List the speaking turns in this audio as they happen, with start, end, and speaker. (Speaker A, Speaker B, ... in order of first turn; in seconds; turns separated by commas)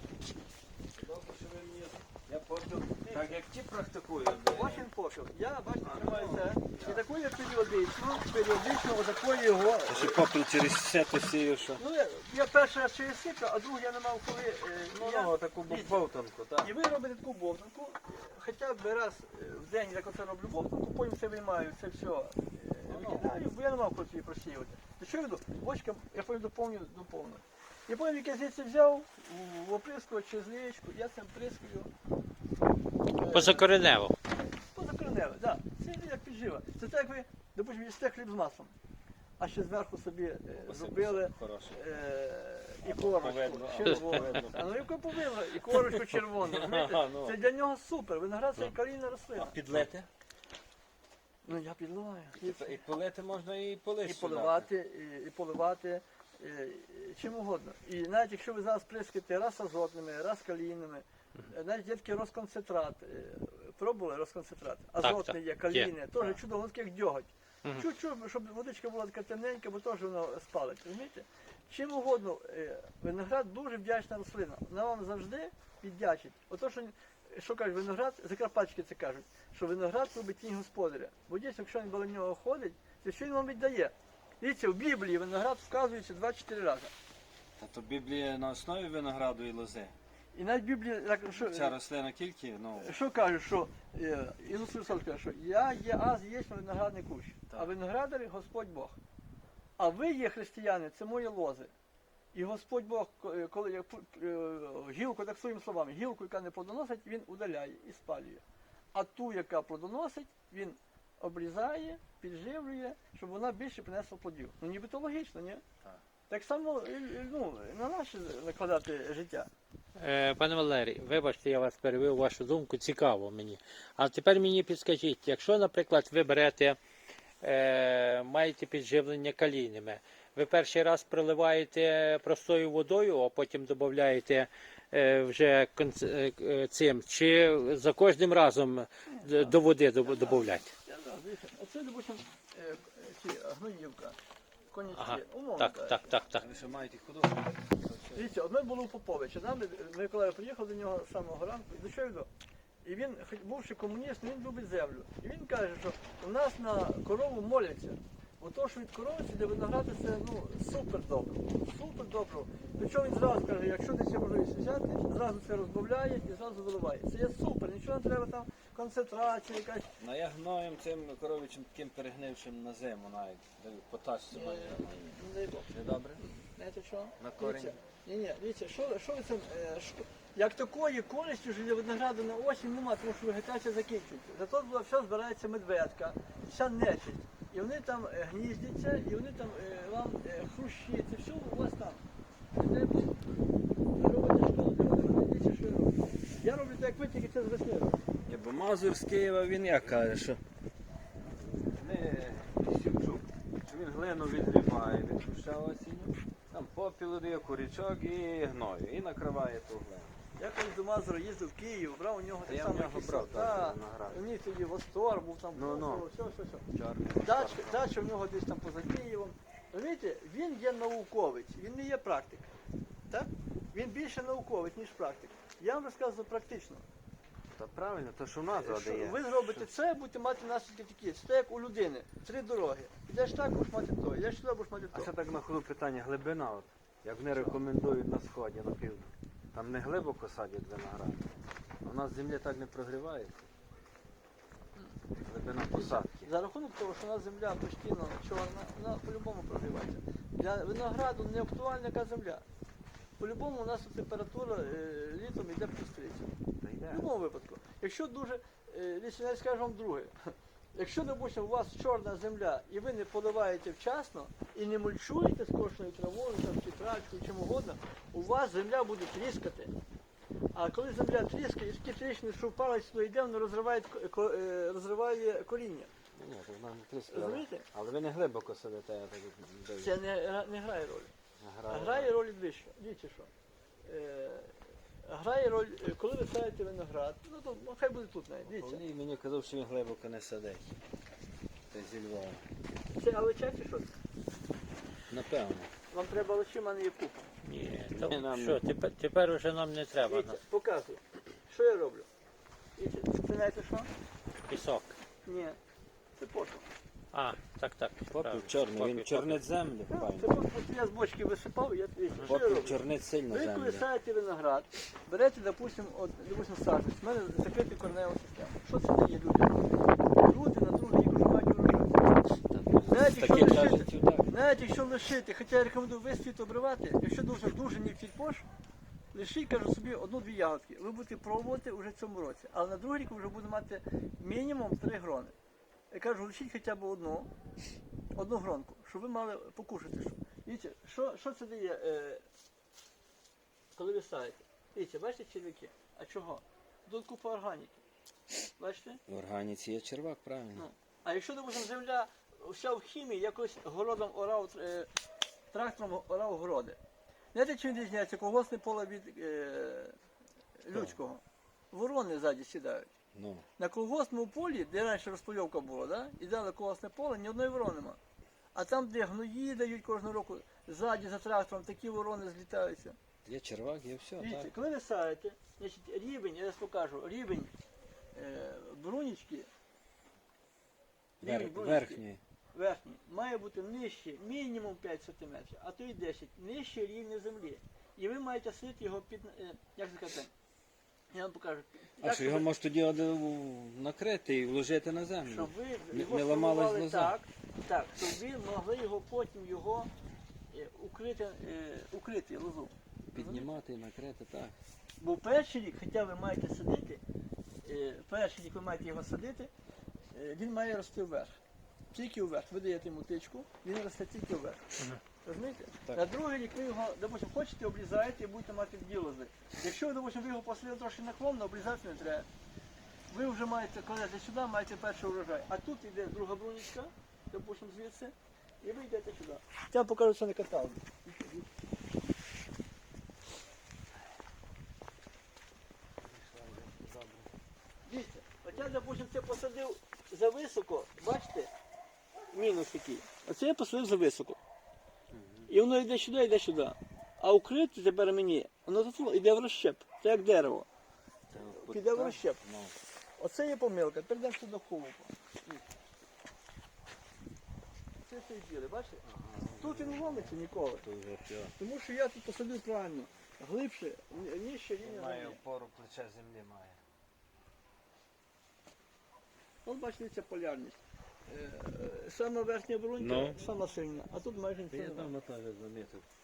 Speaker A: 0.9-4.9, Speaker B: 3.0-3.4, Speaker B: 4.5-10.2, Speaker A: 5.8-7.0, Speaker A: 9.9-11.8, Speaker B: 11.8-16.0, Speaker A: 14.9-16.7, Speaker B: 16.6-31.9, Speaker A: 22.9-23.4, Speaker B: 33.2-33.7, Speaker C: 33.3-34.2, Speaker B: 34.7-38.7, Speaker B: 39.4-49.6, Speaker A: 40.5-42.0, Speaker A: 42.9-44.9, Speaker A: 46.4-47.4, Speaker A: 49.4-50.1, Speaker B: 51.5-52.8, Speaker A: 52.4-54.7, Speaker B: 54.0-86.9, Speaker C: 65.0-65.9, Speaker A: 87.6-89.9, Speaker B: 90.3-91.8, Speaker A: 91.3-93.0, Speaker B: 92.8-99.0, Speaker B: 99.8-101.7, Speaker B: 102.3-108.4, Speaker B: 108.9-115.6, Speaker B: 116.3-119.5, Speaker C: 120.0-126.8, Speaker C: 127.4-140.7, Speaker B: 139.1-144.2, Speaker B: 144.7-146.1, Speaker C: 144.9-146.4, Speaker A: 146.3-148.3, Speaker B: 148.2-152.3, Speaker B: 152.8-169.9, Speaker A: 170.0-174.9, Speaker B: 174.3-192.0, Speaker A: 175.7-176.2, Speaker A: 177.2-177.8, Speaker B: 192.6-193.2, Speaker B: 193.9-198.0, Speaker A: 198.3-200.4, Speaker A: 201.6-210.2, Speaker B: 210.4-216.7, Speaker A: 212.5-214.2, Speaker A: 215.6-216.1, Speaker A: 216.7-217.8, Speaker B: 217.2-222.5, Speaker B: 223.1-226.8, Speaker A: 227.6-229.7, Speaker B: 228.5-235.1, Speaker A: 234.9-241.3, Speaker A: 241.8-243.5, Speaker A: 245.2-246.3, Speaker B: 245.7-252.4, Speaker B: 253.2-256.3, Speaker A: 256.6-257.1, Speaker B: 256.9-269.7, Speaker B: 270.6-275.9, Speaker A: 276.1-279.9, Speaker B: 277.1-277.7, Speaker B: 279.8-281.1, Speaker A: 281.4-282.1, Speaker B: 281.7-283.3, Speaker B: 283.9-288.8, Speaker A: 288.4-290.8, Speaker A: 291.7-292.5, Speaker B: 292.9-293.9, Speaker A: 295.1-295.7, Speaker B: 295.9-297.3, Speaker C: 297.4-300.4, Speaker A: 297.9-298.6, Speaker B: 300.1-302.1, Speaker B: 302.8-303.9, Speaker C: 304.5-305.0, Speaker B: 305.2-305.6, Speaker B: 306.2-306.7, Speaker C: 307.1-309.4, Speaker A: 308.1-310.3, Speaker B: 309.9-319.6, Speaker A: 312.2-313.9, Speaker B: 320.2-322.1, Speaker A: 322.4-324.3, Speaker B: 322.9-328.5, Speaker B: 329.1-335.3, Speaker B: 335.9-337.3, Speaker B: 338.1-342.2, Speaker B: 343.7-347.8, Speaker B: 348.6-349.0, Speaker A: 349.1-350.7, Speaker B: 350.6-354.9, Speaker B: 355.5-356.8, Speaker B: 357.3-360.0, Speaker B: 360.6-361.2, Speaker B: 361.7-362.9, Speaker A: 363.1-363.5, Speaker B: 363.6-368.0, Speaker B: 368.6-373.0, Speaker A: 373.2-374.5, Speaker B: 374.2-377.5, Speaker B: 378.1-379.5, Speaker B: 381.2-382.0, Speaker A: 381.2-382.2, Speaker B: 382.5-390.3, Speaker B: 391.1-392.5, Speaker A: 392.0-397.1, Speaker B: 395.3-399.9, Speaker B: 400.5-403.5, Speaker A: 403.1-404.6, Speaker B: 405.0-407.0, Speaker B: 407.6-409.5, Speaker B: 410.1-411.4, Speaker B: 411.9-414.6, Speaker B: 415.2-422.3, Speaker B: 423.1-431.5, Speaker A: 436.0-437.3, Speaker B: 437.9-441.5, Speaker B: 442.3-444.4, Speaker A: 445.1-445.5, Speaker B: 445.5-450.7, Speaker A: 451.3-452.8, Speaker B: 451.5-452.4, Speaker B: 453.2-455.1, Speaker B: 458.1-460.9, Speaker A: 459.0-461.6, Speaker B: 461.6-465.4, Speaker A: 464.8-466.8, Speaker B: 469.6-475.1, Speaker A: 473.0-473.4, Speaker A: 474.7-476.1